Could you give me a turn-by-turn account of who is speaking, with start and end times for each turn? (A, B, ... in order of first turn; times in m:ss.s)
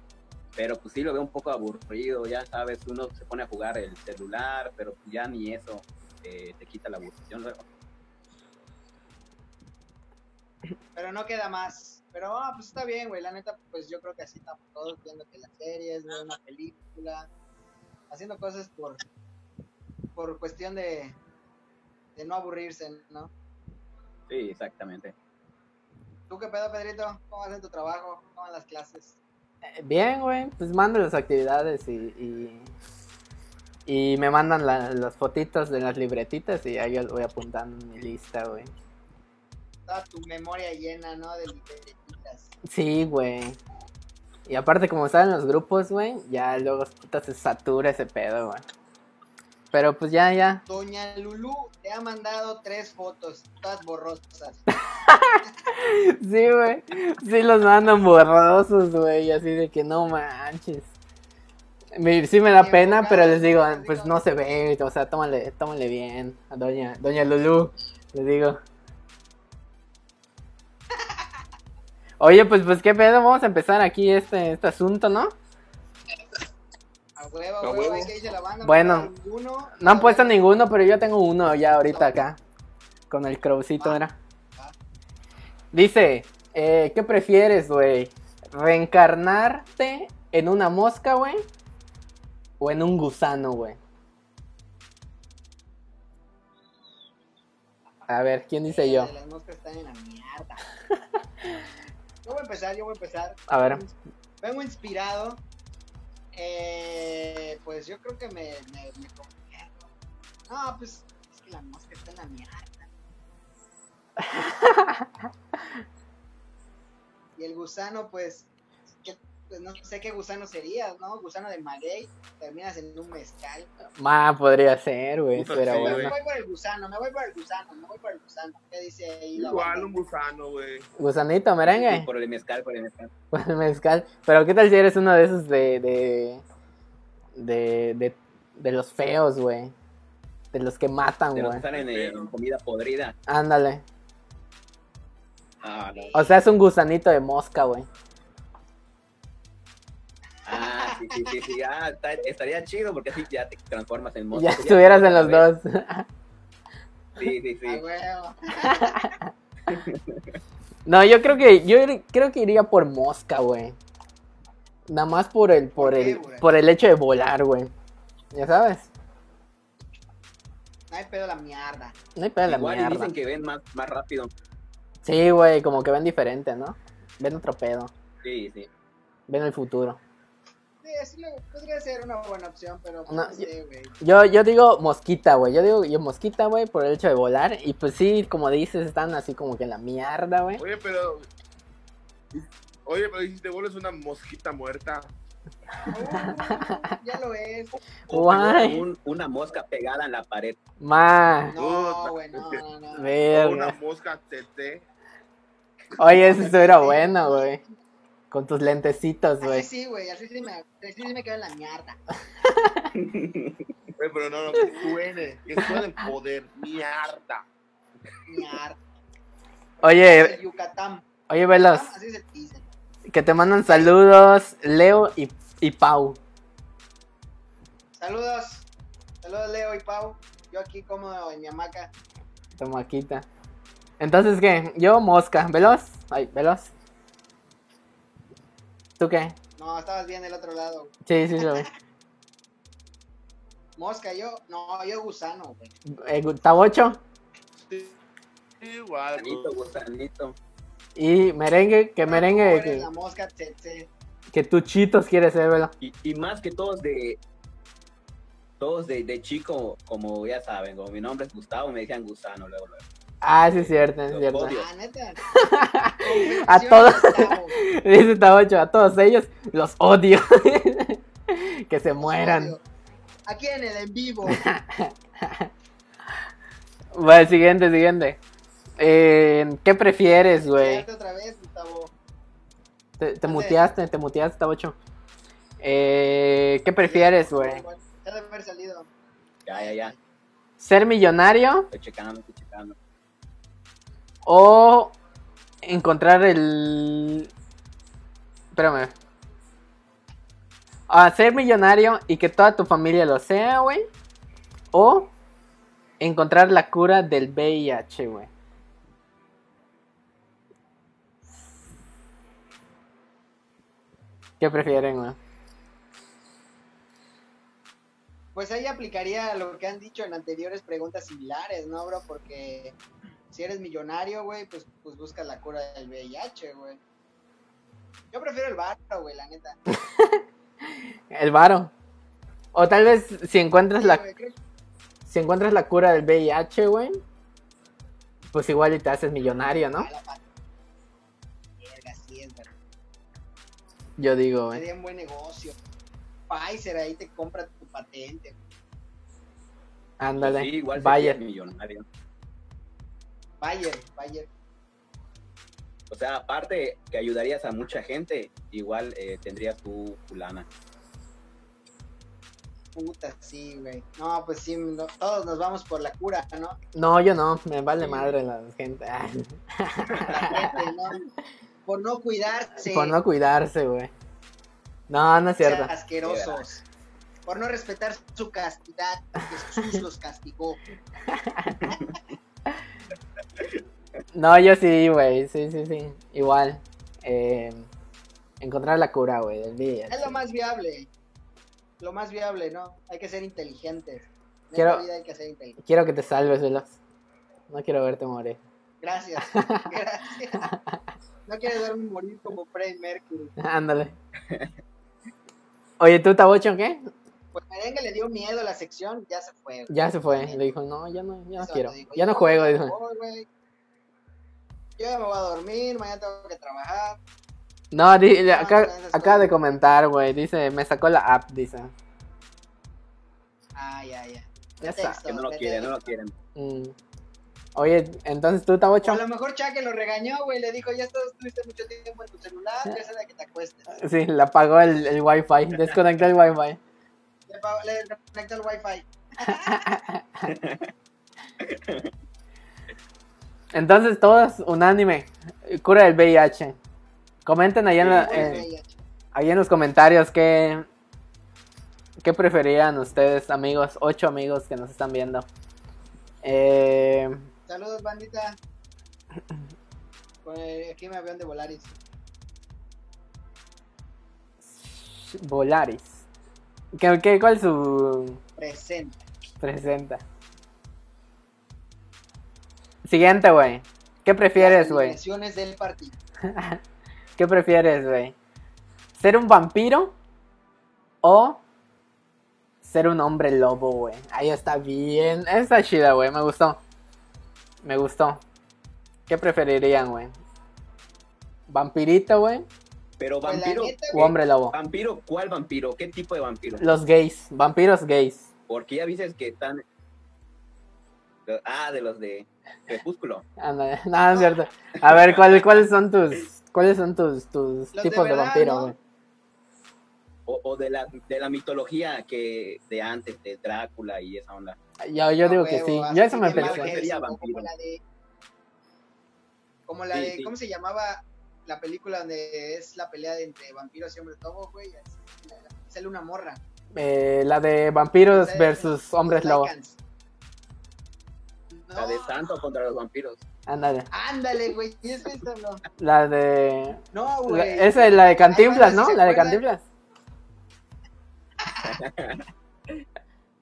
0:00.6-0:07.6 A
0:10.9-0:17.3 B
0:18.1-0:19.0 B
0:20.2-0:21.2 B
0:22.2-0:23.3 B
0:24.3-0:25.1 A
0:26.3-0:29.2 B
0:29.8-0:32.7 C
0:33.9-0:38.7 C
0:39.9-0:42.5 B
0:42.7-0:43.6 C
0:44.5-0:48.6 C
0:49.7-0:50.6 C
0:50.7-0:54.6 B
0:55.0-1:00.9 C
1:02.0-1:08.6 C
1:02.6-1:04.2 B
1:12.2-1:15.3 C
1:17.2-1:20.4 B
1:17.6-1:18.1 D
1:18.6-1:19.1 C
1:19.8-1:22.4 C
1:21.9-1:22.2 B
1:23.1-1:24.1 C
1:25.7-1:31.4 C
1:32.6-1:33.8 C
1:38.1-1:39.1 C
1:38.7-1:40.6 B
1:42.2-1:43.8 B
1:43.5-1:43.8 C
1:44.4-1:45.4 B
1:46.3-1:49.8 B
1:50.5-1:52.9 B
1:54.2-1:55.1 C
1:57.4-1:58.5 B
1:59.0-2:03.7 B
2:04.0-2:06.2 C
2:05.3-2:06.1 D
2:05.8-2:09.9 B
2:09.3-2:10.9 D
2:11.0-2:12.1 C
2:11.7-2:13.1 A
2:13.3-2:16.4 C
2:17.3-2:19.7 C
2:20.5-2:21.6 C
2:21.3-2:23.2 A
2:21.7-2:22.3 D
2:23.3-2:23.8 C
2:25.6-2:26.3 A
2:26.0-2:26.3 B
2:26.1-2:27.9 C
2:30.4-2:35.5 A
2:30.5-2:31.3 B
2:34.3-2:36.1 C
2:37.2-2:37.8 A
2:37.7-2:39.1 B
2:38.6-2:39.3 C
2:39.7-2:40.2 A
2:40.8-2:43.8 C
2:44.9-2:47.7 C
2:45.8-2:46.5 B
2:48.3-2:48.9 C
2:50.9-2:52.0 B
2:52.2-2:53.1 C
2:52.5-2:54.3 A
2:55.0-2:57.9 C
2:58.2-2:58.7 A
2:59.3-3:00.0 C
3:00.8-3:04.0 B
3:03.1-3:03.5 C
3:04.0-3:10.6 C
3:10.6-3:11.3 D
3:12.8-3:15.1 D
3:15.9-3:17.7 B
3:16.4-3:16.8 C
3:18.1-3:20.6 A
3:18.1-3:18.8 C
3:20.8-3:21.6 C
3:21.5-3:23.2 B
3:21.5-3:22.6 D
3:23.0-3:23.7 C
3:23.3-3:24.9 D
3:26.0-3:27.6 C
3:26.1-3:27.6 B
3:28.3-3:29.7 C
3:29.4-3:32.0 B
3:32.4-3:32.9 C
3:33.0-3:33.6 A
3:34.0-3:37.4 D
3:38.3-3:38.8 B
3:39.8-3:40.4 C
3:39.8-3:42.7 B
3:41.3-3:41.9 C
3:43.1-3:46.2 C
3:43.7-3:43.9 B
3:48.0-3:48.7 B
3:49.2-3:51.9 B
3:52.6-3:53.3 C
3:54.0-3:56.7 C
3:59.0-3:59.3 C
3:59.6-4:01.7 B
4:01.0-4:01.7 C
4:03.8-4:05.7 B
4:05.9-4:07.0 C
4:07.5-4:08.0 D
4:08.6-4:09.6 D
4:09.2-4:10.4 A
4:11.0-4:12.9 C
4:12.0-4:13.9 B
4:14.3-4:15.7 C
4:15.8-4:17.2 A
4:18.6-4:22.8 A
4:23.2-4:24.6 C
4:23.4-4:24.6 A
4:24.5-4:25.2 B
4:25.3-4:32.6 C
4:26.0-4:27.6 B
4:32.0-4:32.6 B
4:33.2-4:34.5 B
4:34.3-4:35.5 C
4:37.0-4:38.2 C
4:38.8-4:40.8 C
4:40.4-4:41.9 B
4:43.0-4:44.8 C
4:43.2-4:43.7 B
4:45.6-4:47.6 C
4:46.8-4:48.9 B
4:49.4-4:49.9 A
4:49.5-4:50.0 B
4:50.6-4:51.7 C
4:51.7-4:52.8 A
4:54.2-4:55.0 C
4:55.6-4:57.3 C
4:58.5-4:58.9 C
5:00.9-5:03.9 C
5:04.7-5:05.1 C
5:06.0-5:08.3 C
5:14.4-5:15.2 C
5:18.4-5:22.8 B
5:23.3-5:26.8 B
5:28.1-5:29.6 B
5:29.7-5:31.7 C
5:32.5-5:34.0 C
5:33.8-5:34.4 B
5:35.0-5:37.0 C
5:38.3-5:39.9 C
5:39.7-5:40.3 B
5:41.6-5:42.5 B
5:44.0-5:44.6 C
5:44.5-5:45.6 B
5:46.3-5:48.4 B
5:50.0-5:51.2 C
5:50.2-5:51.8 A
5:53.4-5:54.3 B
5:55.9-6:00.5 A
6:02.8-6:06.6 B
6:06.8-6:10.5 C
6:09.9-6:10.6 A
6:10.1-6:11.0 B
6:11.7-6:13.0 B
6:12.6-6:13.9 C
6:14.9-6:15.7 C
6:15.4-6:16.6 B
6:16.0-6:16.4 A
6:17.2-6:20.6 B
6:21.1-6:21.6 C
6:21.6-6:22.0 A
6:24.1-6:27.7 C
6:28.4-6:30.2 C
6:29.9-6:30.9 B
6:31.8-6:35.6 B
6:34.6-6:34.8 C
6:35.6-6:36.8 C
6:37.5-6:38.4 C
6:38.8-6:40.5 B
6:39.3-6:39.7 C
6:40.4-6:40.8 C
6:41.2-6:43.3 B
6:43.4-6:44.0 C
6:45.8-6:46.9 C
6:47.3-6:50.6 B
6:49.7-6:52.7 C
6:51.4-6:53.3 B
6:54.8-6:57.0 B
6:57.7-7:01.7 C
6:58.2-6:59.4 B
7:03.6-7:05.9 B
7:04.6-7:05.0 C
7:05.1-7:06.1 A
7:06.4-7:06.8 C
7:07.6-7:09.0 C
7:08.8-7:13.8 B
7:13.7-7:16.6 C
7:17.3-7:19.7 B
7:19.5-7:20.2 C
7:20.2-7:20.7 A
7:21.4-7:21.9 A
7:23.5-7:26.6 C
7:27.2-7:28.4 C
7:27.8-7:28.5 A
7:27.9-7:28.8 B
7:29.1-7:30.7 C
7:32.0-7:35.3 C
7:36.2-7:37.2 C
7:37.5-7:38.4 B
7:40.2-7:41.8 B
7:44.4-7:46.0 C
7:46.7-7:48.2 C
7:48.4-7:49.0 B
7:49.4-7:50.0 C
7:52.8-7:55.0 C
7:54.4-7:56.0 B
7:56.3-7:56.6 C
7:57.2-7:58.1 C
7:59.0-7:59.9 C
8:01.0-8:01.4 C
8:02.6-8:06.6 C
8:07.6-8:08.2 C
8:09.1-8:10.1 C
8:11.5-8:12.5 C
8:13.0-8:16.7 A
8:13.2-8:14.1 B
8:13.9-8:14.6 C
8:16.6-8:18.3 C
8:18.5-8:19.6 A
8:21.2-8:23.2 A
8:23.4-8:28.8 C
8:24.9-8:25.4 A
8:27.7-8:28.8 B
8:30.2-8:34.6 A
8:34.8-8:36.7 C
8:35.2-8:37.8 B
8:36.3-8:37.5 A
8:39.7-8:46.4 B
8:39.9-8:40.3 A
8:46.8-8:49.5 C
8:48.1-8:49.8 B
8:51.5-8:52.2 B
8:51.8-8:53.2 A
8:53.5-8:53.9 C
8:53.9-8:55.6 B
8:55.8-8:59.6 C
8:56.9-8:59.4 B
9:01.4-9:01.8 B
9:01.6-9:02.2 A